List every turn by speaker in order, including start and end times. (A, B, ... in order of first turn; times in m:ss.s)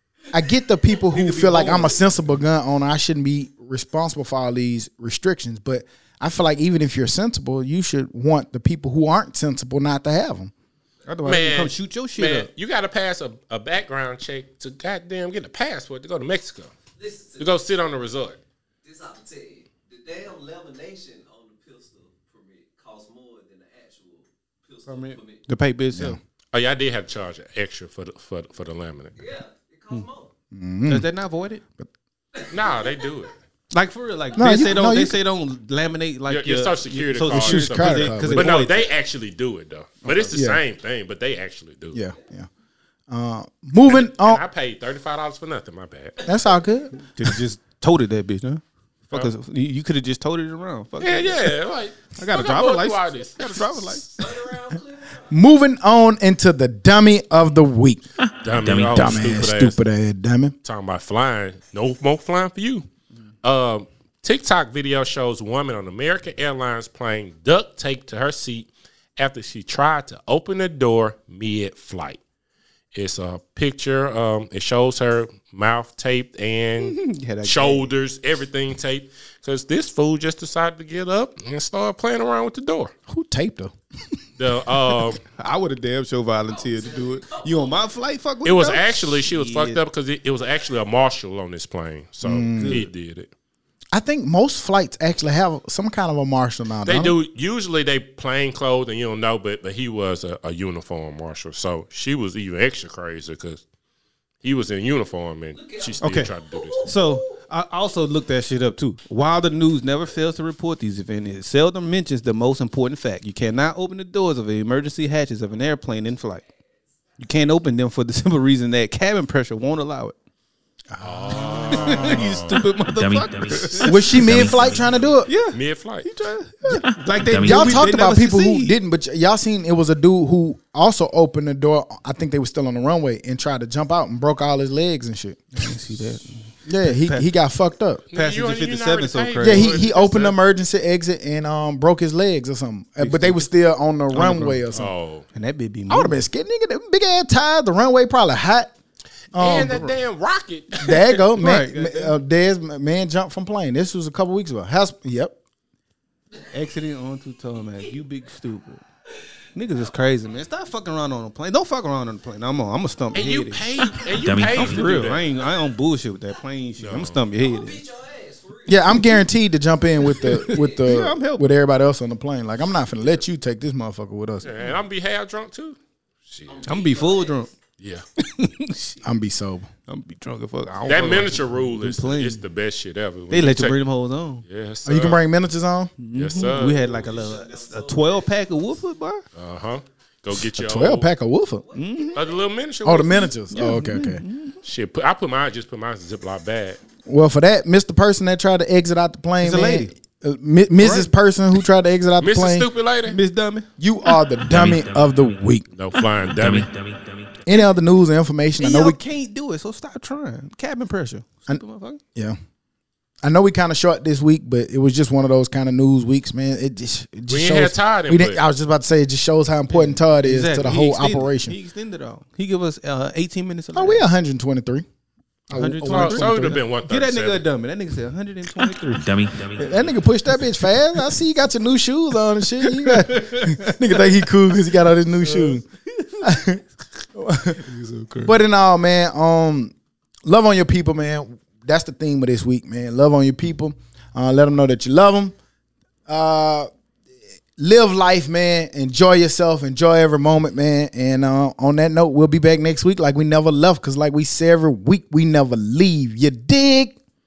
0:00.3-0:10.5 A
0:01.1-0:02.3 B
0:11.0-0:12.5 B
0:11.2-0:16.7 C
0:17.0-0:17.6 D
0:17.4-0:18.4 C
0:18.8-0:25.4 D
0:24.9-0:26.2 B
0:26.5-0:29.1 C
0:29.2-0:30.3 D
0:30.5-0:31.1 A
0:30.9-0:31.6 B
0:32.3-0:33.3 D
0:32.5-0:33.3 C
0:33.7-0:38.8 B
0:34.3-0:34.6 D
0:34.4-0:35.2 A
0:36.3-0:42.0 C
0:37.3-0:38.5 A
0:40.0-0:40.3 B
0:40.3-0:40.6 A
0:41.9-0:42.5 A
0:43.1-0:44.4 A
0:43.9-0:46.2 C
0:46.2-0:46.8 D
0:46.2-0:47.0 A
0:47.1-0:51.5 B
0:51.0-0:54.5 C
0:52.2-0:54.1 B
0:54.2-0:55.3 D
0:55.3-0:58.0 A
0:58.2-0:59.4 E
0:58.4-0:59.8 C
0:58.7-1:00.5 A
1:00.6-1:02.9 C
1:03.4-1:12.2 C
1:12.9-1:22.9 C
1:16.8-1:17.9 B
1:23.1-1:23.7 A
1:24.4-1:25.2 C
1:25.4-1:29.8 B
1:26.4-1:27.9 D
1:28.4-1:33.3 C
1:32.2-1:32.8 A
1:32.6-1:32.9 B
1:33.9-1:37.2 A
1:36.8-1:43.6 C
1:44.4-1:46.8 C
1:45.5-1:47.3 D
1:46.0-1:56.4 B
1:57.2-2:00.2 B
2:00.9-2:02.2 A
2:01.0-2:02.6 C
2:01.6-2:04.6 B
2:02.9-2:05.1 E
2:03.8-2:05.3 A
2:05.2-2:08.8 B
2:05.5-2:06.1 C
2:06.7-2:07.9 E
2:07.4-2:15.7 A
2:15.5-2:17.3 B
2:16.6-2:18.0 A
2:18.1-2:20.4 C
2:18.1-2:19.7 B
2:19.4-2:24.9 A
2:23.0-2:23.5 B
2:24.1-2:24.6 B
2:24.7-2:25.2 C
2:25.3-2:26.2 B
2:25.9-2:28.7 A
2:29.3-2:30.0 A
2:29.3-2:31.2 C
2:30.7-2:35.4 A
2:31.4-2:32.2 B
2:36.5-2:38.8 B
2:39.5-2:43.9 B
2:39.8-2:40.6 D
2:43.1-2:45.3 C
2:44.0-2:44.4 D
2:44.2-2:45.0 E
2:44.5-2:47.8 B
2:45.0-2:45.8 D
2:46.8-2:47.2 C
2:47.3-2:49.2 D
2:48.6-2:54.4 A
2:50.0-2:51.5 B
2:50.2-2:50.8 D
2:54.4-2:56.8 C
2:56.4-2:57.5 D
2:56.6-2:57.5 B
2:57.8-2:58.0 C
2:58.2-2:59.0 B
2:59.0-2:59.7 A
2:59.9-3:02.4 B
3:00.8-3:03.8 C
3:03.3-3:04.4 B
3:04.4-3:05.2 C
3:04.8-3:05.9 A
3:06.0-3:09.2 B
3:06.1-3:07.0 C
3:06.3-3:08.8 D
3:09.3-3:11.1 C
3:10.4-3:11.6 A
3:11.6-3:12.5 D
3:11.7-3:12.2 B
3:12.1-3:13.3 C
3:12.8-3:14.2 A
3:13.5-3:14.6 B
3:14.6-3:16.8 C
3:17.0-3:22.7 A
3:19.4-3:19.9 B
3:20.8-3:21.1 B
3:22.2-3:23.2 C
3:23.1-3:23.7 B
3:23.8-3:25.6 A
3:24.5-3:25.3 E
3:25.7-3:26.7 C
3:26.0-3:27.4 E
3:27.4-3:29.0 A
3:28.6-3:32.0 B
3:33.2-3:41.6 A
3:37.3-3:38.4 C
3:39.7-3:44.1 B
3:43.7-3:44.8 A
3:45.5-3:46.6 A
3:45.5-3:49.0 B
3:45.8-3:47.4 C
3:48.6-3:50.0 E
3:49.6-3:55.6 A
3:52.5-3:54.2 B
3:55.2-3:56.3 B
3:56.2-3:56.6 A
3:57.1-3:57.6 A
3:57.6-3:58.4 B
3:58.2-3:59.7 A
4:00.2-4:05.3 A
4:06.1-4:06.7 A
4:07.6-4:17.0 A